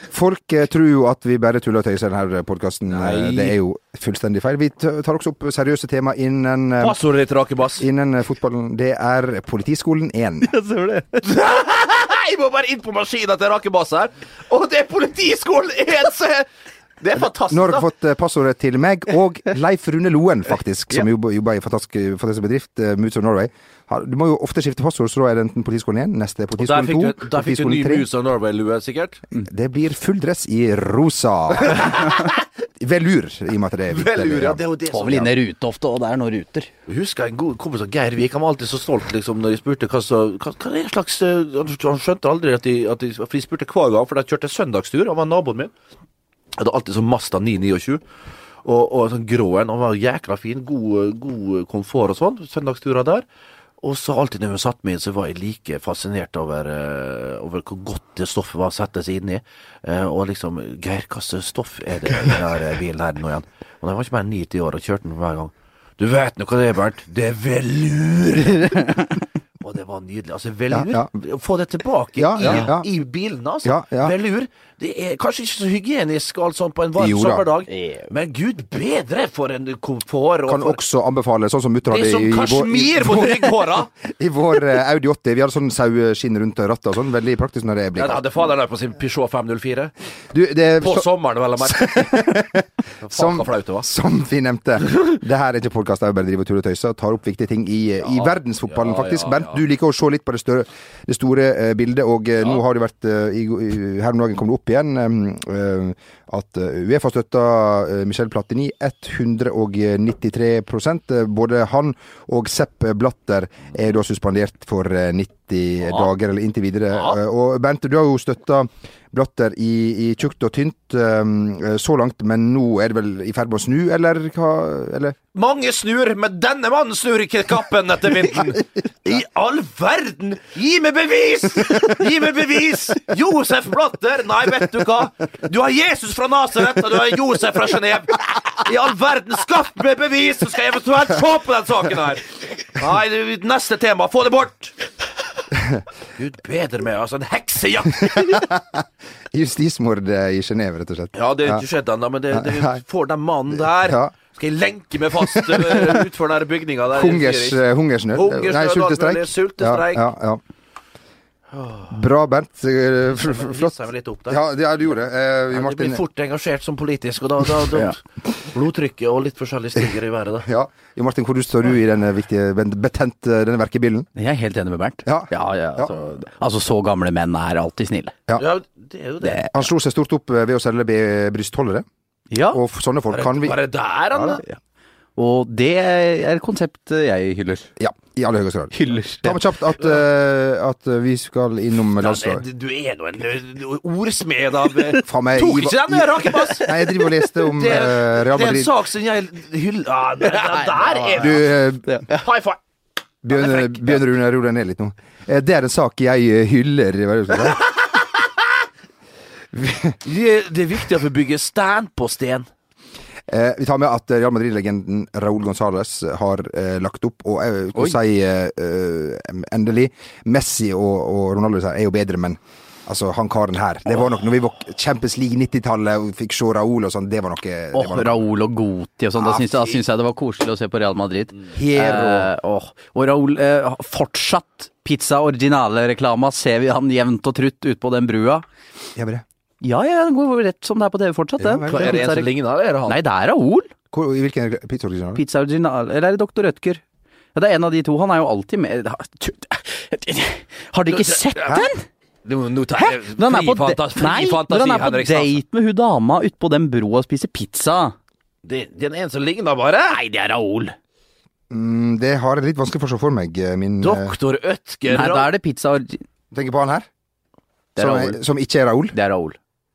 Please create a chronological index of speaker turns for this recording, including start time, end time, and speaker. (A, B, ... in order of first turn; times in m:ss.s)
0:00.1-0:07.0 A
0:02.9-0:03.6 B
0:06.8-0:07.8 B
0:07.8-0:10.5 A
0:10.7-0:11.1 C
0:11.1-0:16.5 B
0:17.0-0:17.9 B
0:17.5-0:28.1 A
0:26.6-0:29.2 B
0:29.4-0:34.6 A
0:31.7-0:32.3 B
0:33.9-0:35.3 B
0:34.9-0:36.7 C
0:36.9-0:45.7 B
0:46.6-0:48.0 B
0:48.6-0:53.2 B
0:53.8-1:09.1 B
1:09.6-1:20.8 B
1:10.7-1:11.1 A
1:12.2-1:12.9 A
1:12.4-1:12.7 C
1:13.6-1:14.1 A
1:17.0-1:17.5 A
1:17.7-1:18.1 C
1:20.5-1:28.2 A
1:21.9-1:23.9 B
1:28.0-1:29.9 B
1:30.3-1:31.1 A
1:30.8-1:32.2 B
1:31.6-2:05.2 A
1:33.0-1:33.9 B
1:38.1-1:39.6 B
2:05.4-2:24.8 B
2:26.2-2:28.5 B
2:28.0-2:28.8 A
2:29.3-2:31.6 A
2:31.2-2:40.1 B
2:32.3-2:32.8 A
2:33.6-2:34.1 A
2:35.3-2:36.1 A
2:36.9-2:40.4 A
2:41.6-2:41.9 B
2:41.9-2:43.8 A
2:43.1-2:44.4 B
2:44.3-2:46.0 A
2:45.5-2:48.0 B
2:48.5-2:50.5 B
2:50.4-2:54.1 A
2:54.2-2:58.2 C
2:55.1-2:55.9 A
2:58.4-2:59.6 B
2:59.5-3:01.9 A
3:02.3-3:02.6 C
3:02.5-3:03.6 A
3:03.1-3:04.4 B
3:04.1-3:04.4 A
3:05.2-3:07.7 C
3:07.8-3:12.4 A
3:08.7-3:09.3 C
3:12.0-3:22.6 B
3:15.1-3:18.7 A
3:20.3-3:22.2 C
3:21.1-3:21.9 A
3:23.2-3:27.7 A
3:23.3-3:24.0 B
3:29.5-3:30.0 A
3:30.0-3:32.5 B
3:33.3-3:48.2 A
3:47.7-3:58.5 C
3:51.5-3:52.3 A
3:59.0-3:59.2 A
3:59.6-4:02.3 C
4:01.4-4:02.2 A
4:01.7-4:03.0 B
4:02.9-4:03.7 C
4:03.9-4:05.2 A
4:05.2-4:06.8 C
4:07.4-4:11.8 C
4:10.9-4:11.4 B
4:12.2-4:15.4 B
4:12.8-4:18.0 C
4:18.4-4:20.0 B
4:19.9-4:20.8 C
4:21.5-4:24.1 A
4:23.8-4:25.3 B
4:24.9-4:26.0 C
4:26.3-4:26.9 A
4:27.8-4:28.2 C
4:27.8-4:29.0 A
4:28.9-4:29.4 C